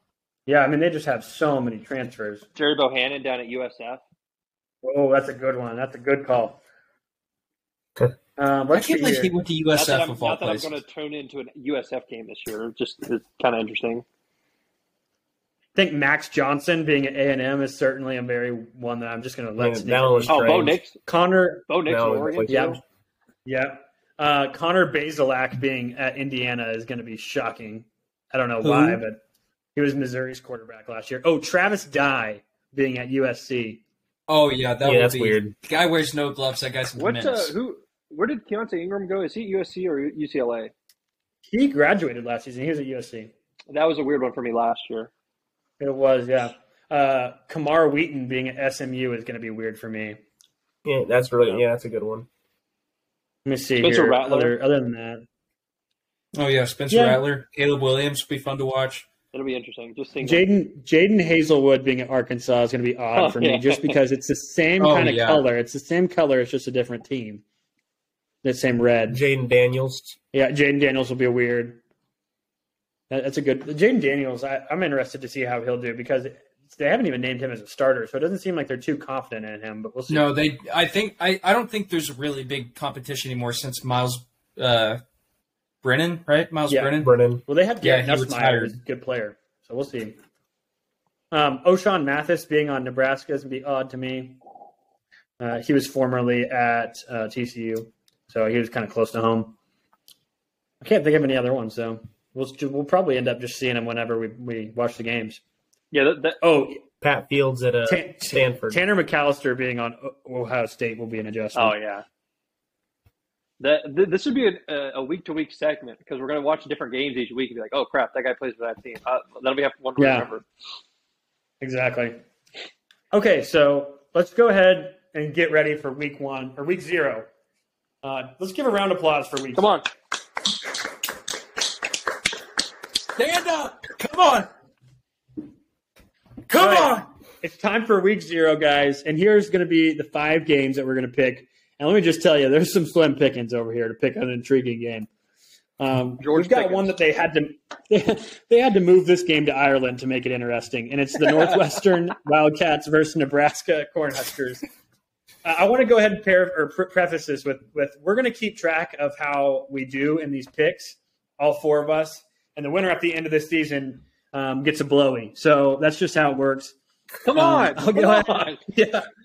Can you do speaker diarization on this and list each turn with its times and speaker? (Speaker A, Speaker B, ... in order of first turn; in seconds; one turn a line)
Speaker A: 0.5-2.4
Speaker B: 2.5-4.0
Speaker A: 4.8-6.6
Speaker A: 8.4-9.3
Speaker C: 8.7-10.8
Speaker B: 9.7-14.0
Speaker A: 15.7-21.7
Speaker D: 19.6-20.8
Speaker B: 20.3-21.0
Speaker B: 21.7-22.8
Speaker D: 21.8-22.8
Speaker A: 22.4-22.8
Speaker A: 23.4-29.2
Speaker C: 28.6-29.0
Speaker A: 29.8-33.8
Speaker C: 34.3-37.5
Speaker D: 34.8-35.5
Speaker B: 37.0-40.7
Speaker A: 41.5-43.3
Speaker B: 43.7-45.1
Speaker A: 45.8-50.2
Speaker D: 50.8-52.3
Speaker A: 53.5-55.2
Speaker B: 53.8-54.5
Speaker C: 56.3-59.1
Speaker A: 56.9-57.2
Speaker B: 59.3-60.5
Speaker A: 60.2-67.4
Speaker B: 63.1-64.0
Speaker C: 64.8-65.5
Speaker A: 68.4-69.2
Speaker D: 69.1-70.2
Speaker A: 70.3-71.8
Speaker A: 73.1-80.3
Speaker C: 80.1-85.0
Speaker C: 85.8-87.1
Speaker A: 86.7-90.2
Speaker D: 87.0-87.4
Speaker C: 87.8-88.8
Speaker A: 91.3-94.4
Speaker A: 95.4-99.5
Speaker A: 100.8-105.4
Speaker B: 105.9-106.4
Speaker A: 106.4-106.8
Speaker D: 107.0-108.8
Speaker A: 107.9-111.8
Speaker B: 111.5-112.0
Speaker B: 113.6-120.4
Speaker A: 120.0-120.3
Speaker A: 121.6-122.2
Speaker A: 123.1-127.2
Speaker A: 128.0-129.7
Speaker B: 129.6-129.9
Speaker C: 133.2-134.5
Speaker C: 136.5-137.0
Speaker A: 136.5-145.1
Speaker A: 145.8-154.6
Speaker B: 146.2-146.9
Speaker A: 155.4-166.7
Speaker B: 167.2-168.6
Speaker A: 167.3-169.1